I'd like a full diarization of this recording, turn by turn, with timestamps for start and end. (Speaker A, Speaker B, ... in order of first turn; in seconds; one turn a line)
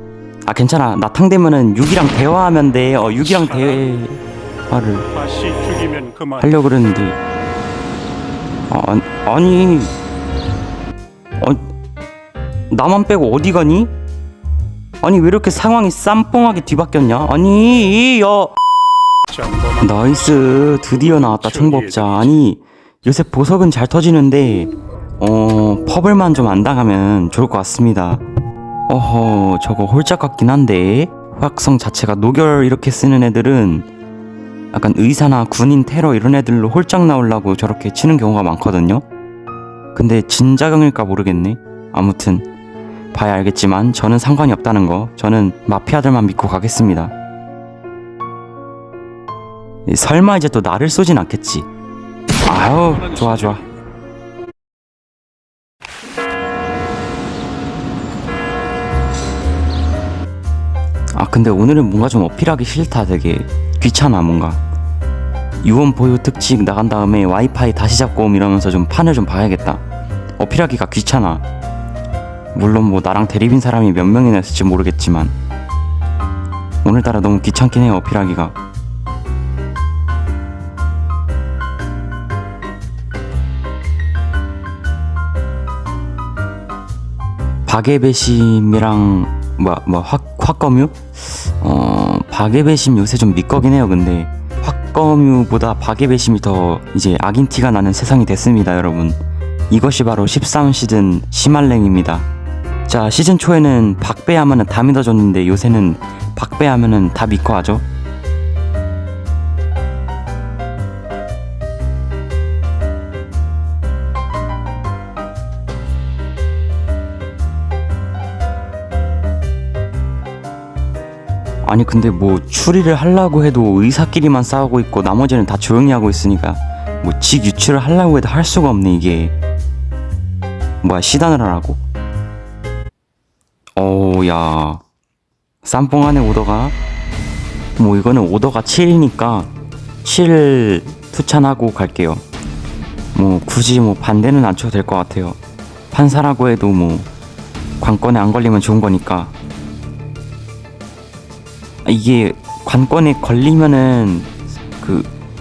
Speaker A: 0.4-5.1
Speaker B: 3.1-3.9
Speaker B: 5.1-6.5
Speaker A: 6.4-7.2
Speaker A: 8.7-9.9
Speaker A: 11.4-11.7
Speaker A: 12.7-13.9
Speaker A: 15.0-18.5
Speaker B: 19.3-22.4
Speaker A: 19.8-28.2
Speaker A: 28.9-33.9
Speaker A: 34.7-39.0
Speaker A: 39.9-42.5
Speaker A: 43.1-47.1
Speaker A: 49.9-51.7
Speaker A: 52.4-53.6
Speaker B: 52.8-53.8
Speaker A: 61.1-64.6
Speaker A: 65.6-69.8
Speaker A: 70.4-71.4
Speaker A: 72.5-75.3
Speaker A: 76.8-78.5
Speaker A: 87.7-99.2
Speaker A: 99.7-102.3
Speaker A: 102.9-107.8
Speaker A: 121.6-129.3
Speaker A: 130.8-131.8
Speaker A: 133.8-134.8
Speaker A: 135.6-136.8
Speaker A: 137.8-139.5
Speaker A: 140.0-142.2
Speaker A: 143.1-145.4
Speaker A: 145.9-147.1
Speaker A: 147.8-149.3
Speaker A: 151.8-155.1